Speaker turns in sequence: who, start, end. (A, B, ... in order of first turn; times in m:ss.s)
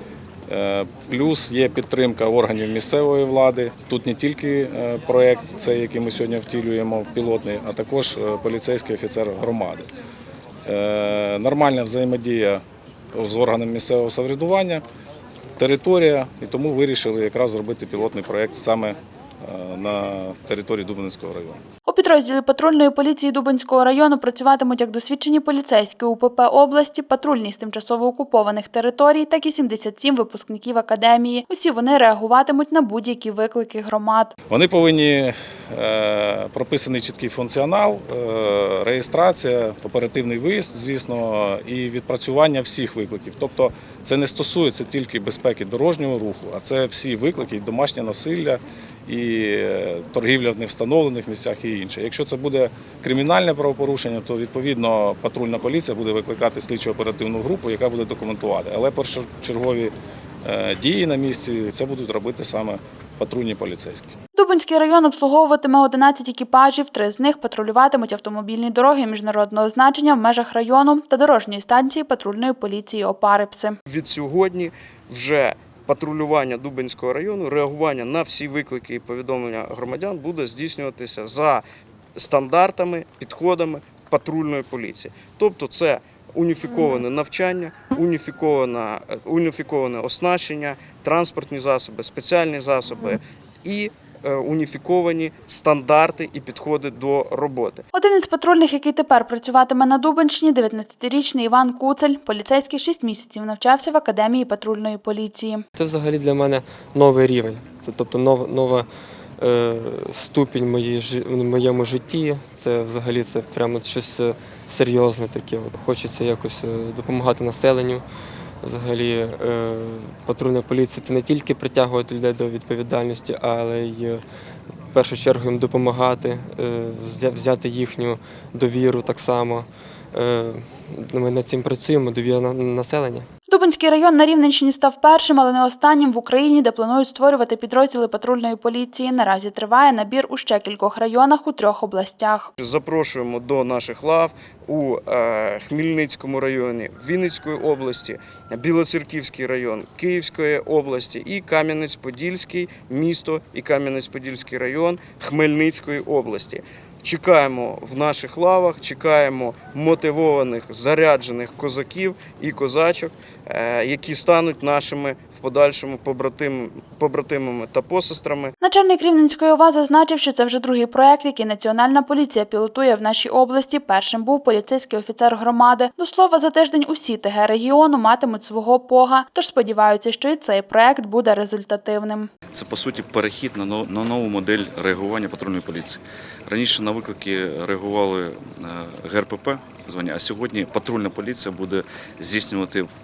0:00.5-0:09.9 A
0:10.6-0:12.6 A
0:13.1-0:14.8 A
0:15.6-0:21.6 A
0:21.9-0:34.3 B
0:34.5-0:59.9 A
1:00.4-1:04.1 A
1:04.3-1:13.8 B
1:13.9-1:21.6 C
1:22.2-1:37.8 C
1:37.9-1:45.6 B
1:45.8-1:58.0 D
1:58.6-2:04.2 D
2:04.9-2:13.3 D
2:13.5-2:22.5 B
2:22.6-2:48.5 C
2:48.6-3:02.3 B
3:02.5-3:12.9 E